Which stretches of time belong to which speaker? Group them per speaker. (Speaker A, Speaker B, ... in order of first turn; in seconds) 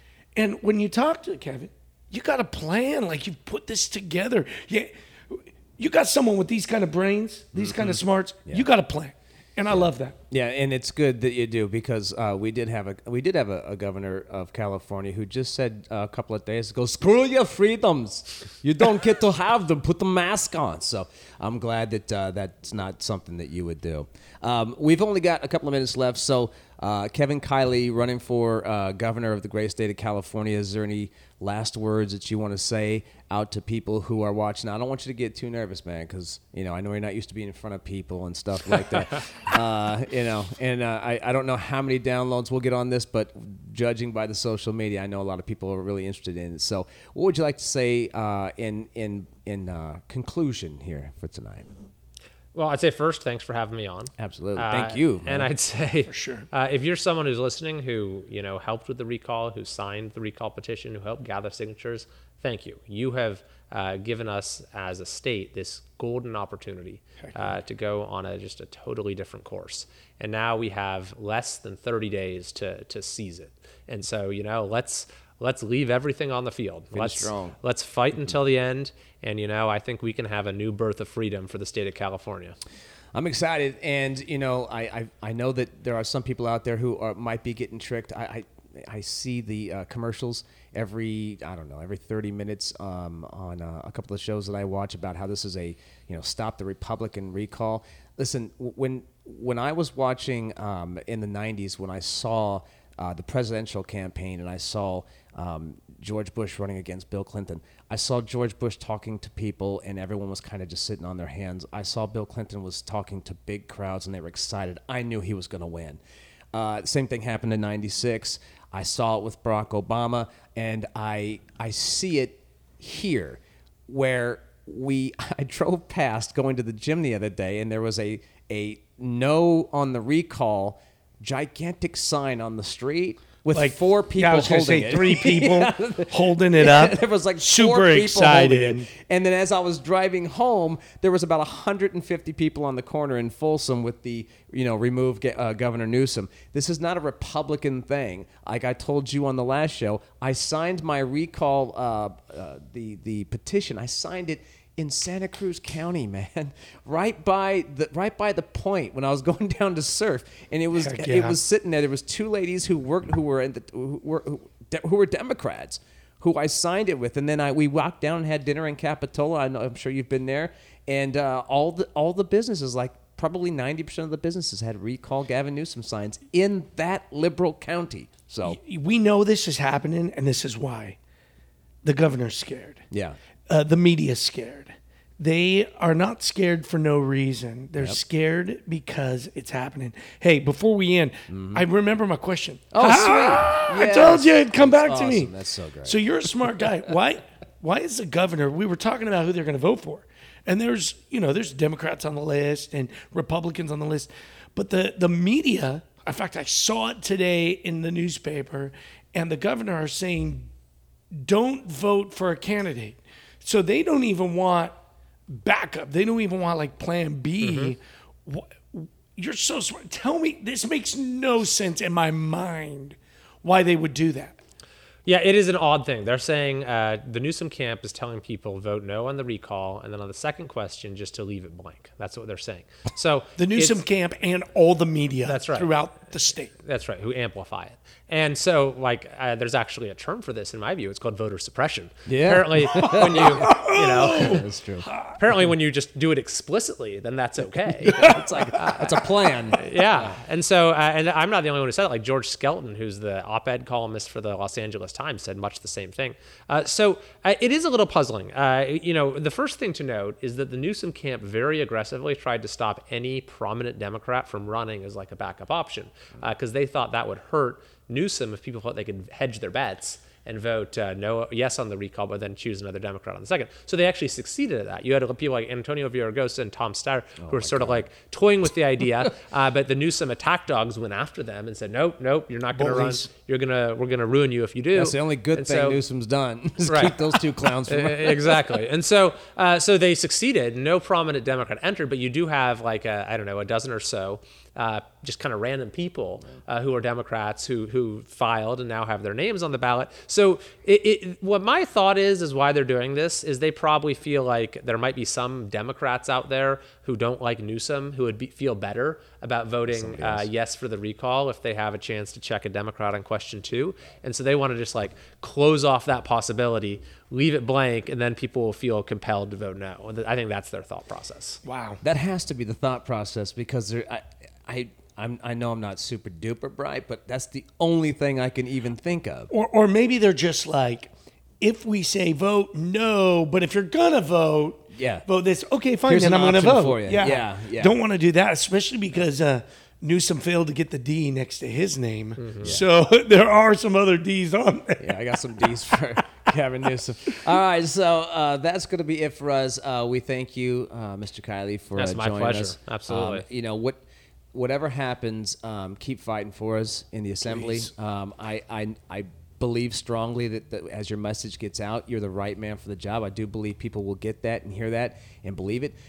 Speaker A: 0.3-10.2, 56.1-56.5, 133.5-138.9, 160.8-161.4, 178.4-181.0, 181.8-182.9, 183.5-195.3, 195.8-210.5, 211.1-214.7, 215.3-224.4, 233.4-236.5, 243.2-245.2, 247.9-248.5, 282.5-283.1, 321.4-321.8, 329.3-330.9, 331.4-345.0, 357.3-357.7
Speaker B: 7.5-8.7, 9.7-51.7, 54.2-55.5, 76.9-77.6, 83.1-116.0, 116.5-178.6, 182.9-183.2, 191.3-191.7, 192.7-196.7, 242.1-244.9, 247.8-250.2, 277.2-277.9, 284.8-288.6, 309.7-310.3, 321.8-329.3, 334.7-335.1, 335.9-337.8, 344.8-353.8, 354.3-365.8
Speaker C: 52.5-82.6, 217.4-217.7, 225.1-233.8, 235.3-235.7, 236.6-244.4, 245.2-248.0, 248.6-248.9, 249.5-285.8, 286.6-321.4, 342.2-342.6, 351.8-353.3